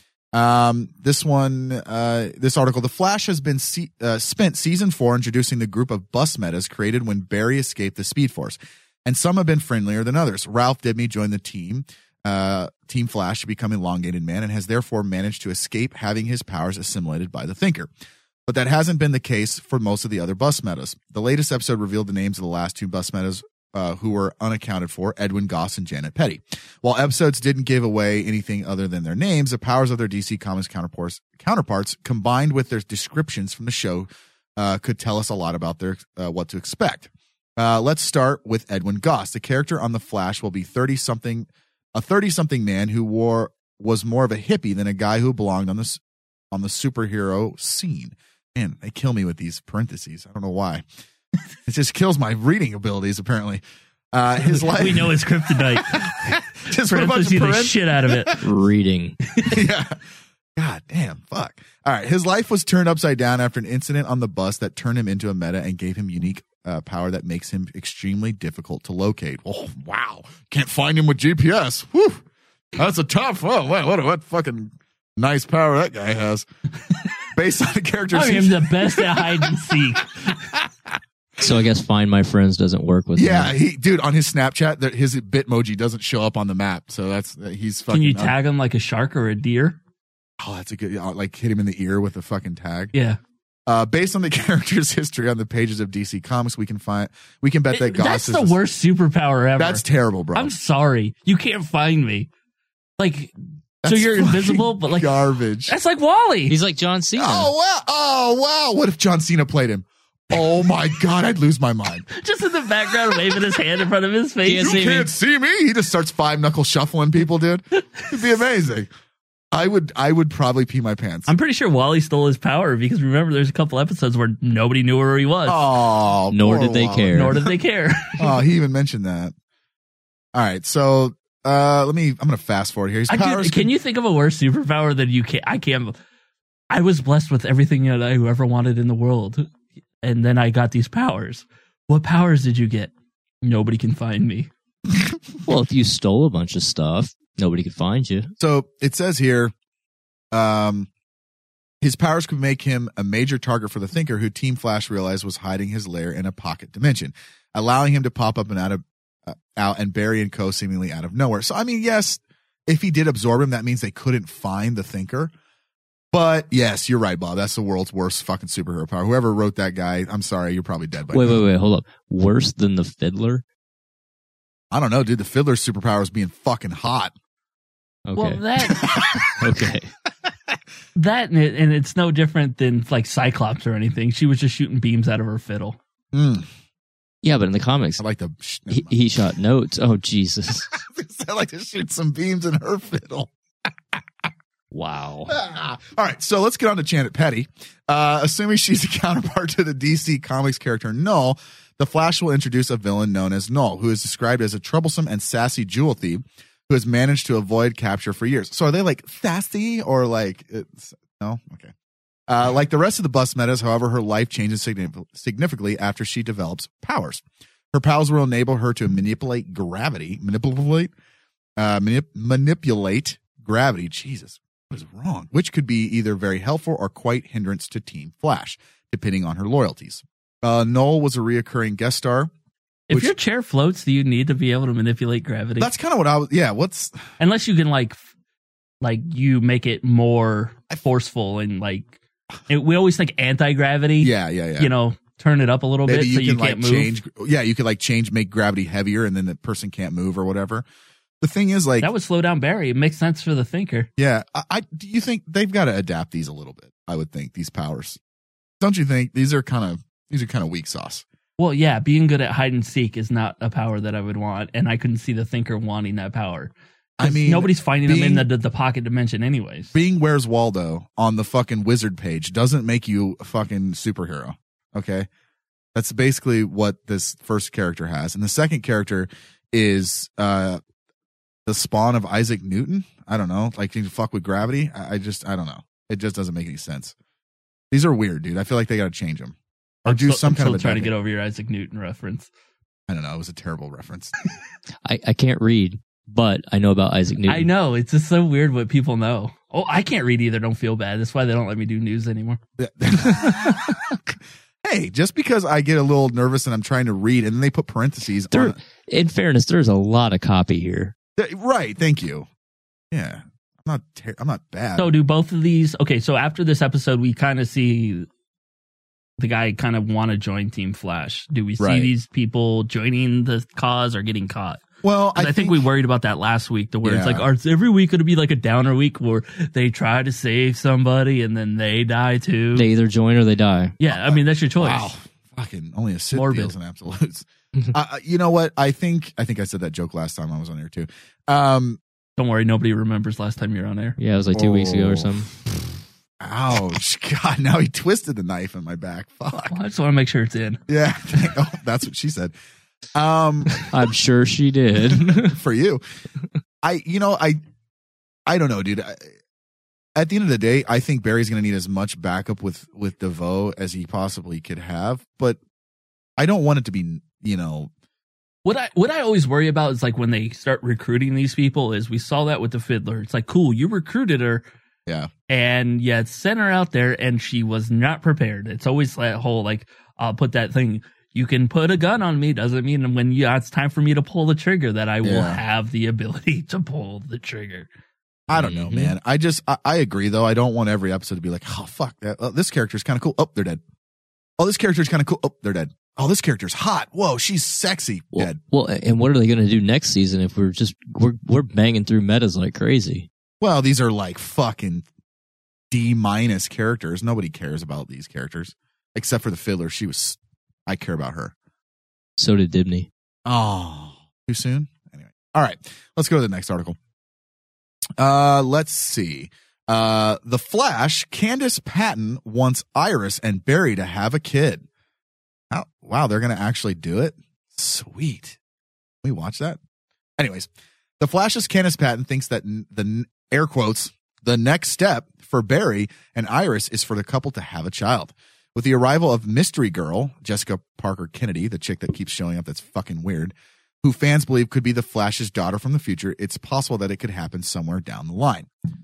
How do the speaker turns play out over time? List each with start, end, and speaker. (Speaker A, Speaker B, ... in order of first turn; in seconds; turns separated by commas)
Speaker A: 0.3-17.9, Speaker A: 18.5-50.9, Speaker A: 51.7-58.4, Speaker B: 54.4-58.4, Speaker C: 58.4-59.2, Speaker A: 59.5-60.0, Speaker A: 60.6-72.2, Speaker A: 72.8-76.5, Speaker A: 77.3-80.9, Speaker B: 78.1-80.3, Speaker C: 81.4-83.5, Speaker A: 83.2-88.3, Speaker B: 87.9-89.8, Speaker A: 90.4-92.9, Speaker A: 93.7-98.6, Speaker B: 97.7-102.3, Speaker A: 99.6-100.5, Speaker B: 103.0-103.3, Speaker A: 103.8-105.7, Speaker B: 103.8-106.5, Speaker C: 106.5-107.5, Speaker A: 107.2-112.1, Speaker B: 112.1-115.0, Speaker C: 114.5-115.1, Speaker A: 114.6-118.9, Speaker A: 119.5-121.3, Speaker B: 121.3-125.7, Speaker A: 125.5-127.4, Speaker C: 126.3-127.5, Speaker B: 127.1-128.3, Speaker A: 128.2-129.3, Speaker A: 130.3-133.7, Speaker B: 133.1-136.0, Speaker B: 136.7-139.5, Speaker B: 140.0-144.5, Speaker C: 145.4-148.3, Speaker A: 148.4-149.5, Speaker A: 150.3-150.9, Speaker A: 151.8-165.3, Speaker A: 166.1-171.4, Speaker C: 171.1-173.4, Speaker A: 174.7-177.1, Speaker C: 178.1-178.4, Speaker B: 178.2-178.9, Speaker A: 178.7-179.4, Speaker C: 179.3-179.9, Speaker B: 180.9-185.8, Speaker A: 186.1-186.5, Speaker C: 187.2-188.0, Speaker A: 188.0-188.9, Speaker C: 188.7-190.7, Speaker A: 190.8-193.3, Speaker C: 194.7-195.3, Speaker A: 195.3-211.7, Speaker A: 212.3-220.9, Speaker A: 221.6-232.3, Speaker A: 232.9-233.2, Speaker B: 232.9-235.7, Speaker A: 235.6-237.0, Speaker B: 237.2-238.0, Speaker B: 238.8-241.9, Speaker B: 242.5-246.9, Speaker A: 244.0-244.7, Speaker A: 245.9-250.7, Speaker A: 251.2-251.9, Speaker B: 251.8-253.9, Speaker A: 254.0-258.0, Speaker A: 258.6-261.1, Speaker B: 261.4-269.7, Speaker A: 267.0-268.3, Speaker A: 269.7-275.1, Speaker A: 275.8-280.6, Speaker A: 281.5-286.9, Speaker A: 287.7-290.9, Speaker B: 289.9-292.3, Speaker A: 292.9-294.1, Speaker C: 294.9-297.5, Speaker B: 297.3-302.4, Speaker A: 302.6-308.6, Speaker C: 308.3-310.9, Speaker A: 311.2-312.3, Speaker A: 312.9-314.9, Speaker B: 314.8-318.1, Speaker B: 319.2-324.6, Speaker A: 321.6-321.9, Speaker A: 324.8-325.6, Speaker B: 325.1-332.7, Speaker A: 326.8-327.3, Speaker C: 332.6-333.8, Speaker B: 333.8-334.9, Speaker A: 333.9-341.8, Speaker B: 336.1-336.5, Speaker B: 342.2-344.0, Speaker C: 344.0-345.3, Speaker A: 344.3-345.3, Speaker A: 346.2-349.6, Speaker B: 349.5-350.6, Speaker A: 350.7-352.3, Speaker A: 352.9-353.7, Speaker C: 353.6-355.4, Speaker A: 354.7-355.8, Speaker A: 356.6-357.4, Speaker A: 358.3-359.1, Speaker A: 360.0-365.4, Speaker A: 366.2-367.7, Speaker B: 368.4-374.4, Speaker B: 375.3-387.7, Speaker A: 385.0-385.4, Speaker A: 388.3-393.6, Speaker C: 388.3-388.9, Speaker A: 394.4-398.4, Speaker C: 398.1-403.1, Speaker A: 403.4-404.9, Speaker A: 405.7-411.3, Speaker C: 412.2-412.9, Speaker A: 413.3-416.8, Speaker A: 418.0-424.7, Speaker A: 425.5-428.4, Speaker A: 429.0-429.6, Speaker A: 430.2-430.5, Speaker A: 431.0-448.5